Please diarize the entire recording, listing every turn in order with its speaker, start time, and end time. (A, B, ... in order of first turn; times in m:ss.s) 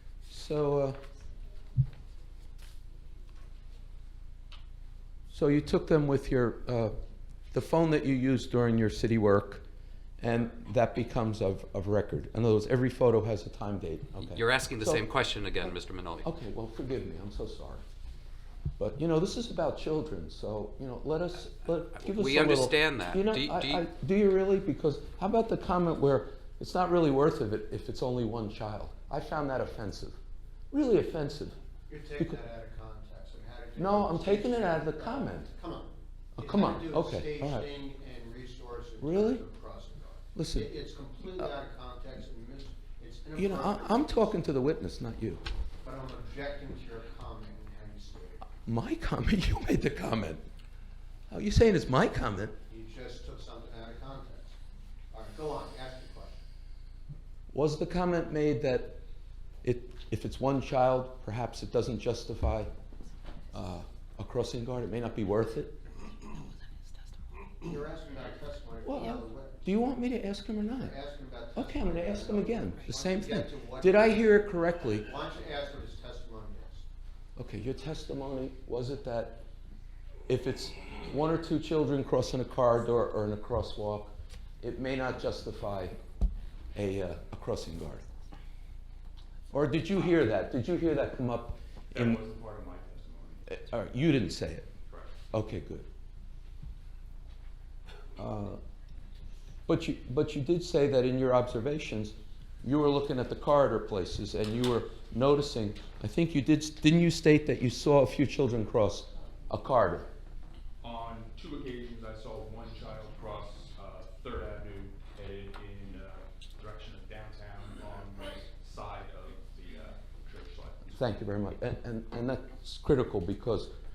0:00.3-0:01.0 A
0:05.3-0:07.0 A
0:07.5-0:09.6 A
0:10.2-0:15.0 A
0:14.3-0:16.3 B
0:16.2-0:17.8 A
0:18.8-0:30.2 A
0:21.9-0:23.9 B
0:30.7-0:31.6 A
0:31.9-0:44.3 C
0:33.8-0:35.5 A
0:36.4-0:37.7 A
0:39.0-0:39.4 A
0:40.4-0:40.7 A
0:43.4-0:45.4 A
0:45.8-0:48.5 C
0:48.6-0:50.4 A
0:51.3-0:52.6 A
0:52.7-0:54.6 C
0:55.1-0:56.4 C
0:57.5-0:59.0 A
0:59.6-1:02.7 A
1:03.5-1:05.8 A
1:07.6-1:09.6 C
1:08.8-1:11.0 A
1:10.8-1:16.9 C
1:11.6-1:15.1 A
1:17.4-1:19.4 A
1:20.3-1:26.0 A
1:26.8-1:28.0 A
1:29.5-1:32.2 A
1:31.9-1:33.6 D
1:33.5-1:34.7 A
1:34.8-1:35.2 D
1:35.3-1:35.9 A
1:38.2-1:38.6 A
1:39.7-1:50.1 A
1:50.8-2:01.1 D
2:01.0-2:03.7 A